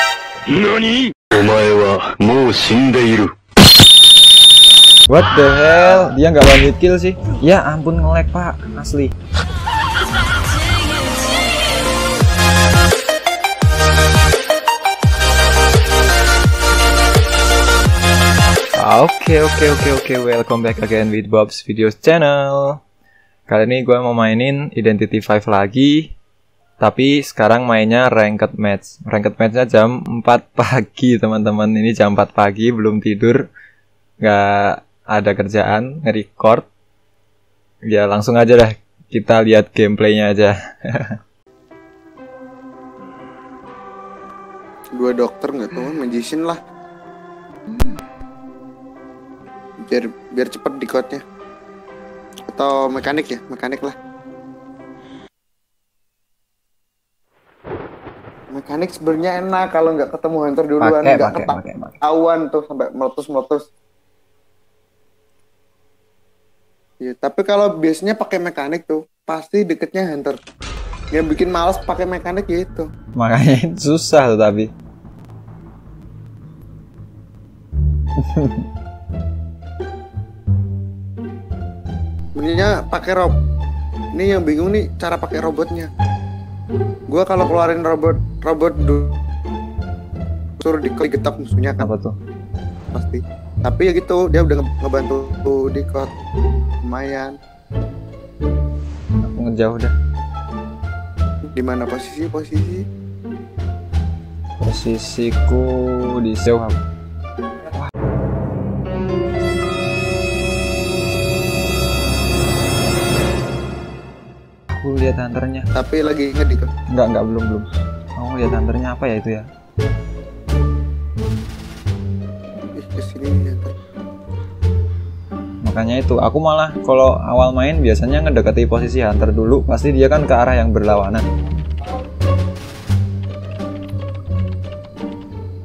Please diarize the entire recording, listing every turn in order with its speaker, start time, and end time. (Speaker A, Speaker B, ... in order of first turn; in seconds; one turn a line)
Speaker A: 0.5-3.3
Speaker B: 5.1-9.1
Speaker B: 18.8-22.8
Speaker B: 23.5-26.1
Speaker B: 26.8-33.4
Speaker B: 34.2-36.7
Speaker B: 37.9-41.2
Speaker C: 45.0-46.6
Speaker C: 49.9-51.2
Speaker C: 52.5-54.0
Speaker C: 58.5-63.6
Speaker B: 60.8-62.0
Speaker C: 67.0-70.4
Speaker C: 71.1-72.9
Speaker B: 73.2-74.7
Speaker B: 78.2-78.7
Speaker C: 82.4-83.3
Speaker C: 84.2-85.9
Speaker C: 87.1-89.2
Speaker C: 90.6-91.9
Speaker B: 91.8-92.2
Speaker C: 92.9-96.1
Speaker C: 96.9-97.3
Speaker B: 99.2-99.9
Speaker C: 101.5-102.8
Speaker B: 104.6-106.8
Speaker B: 114.7-115.7
Speaker C: 115.7-116.7
Speaker B: 116.9-119.5
Speaker C: 122.8-123.7
Speaker B: 125.6-131.3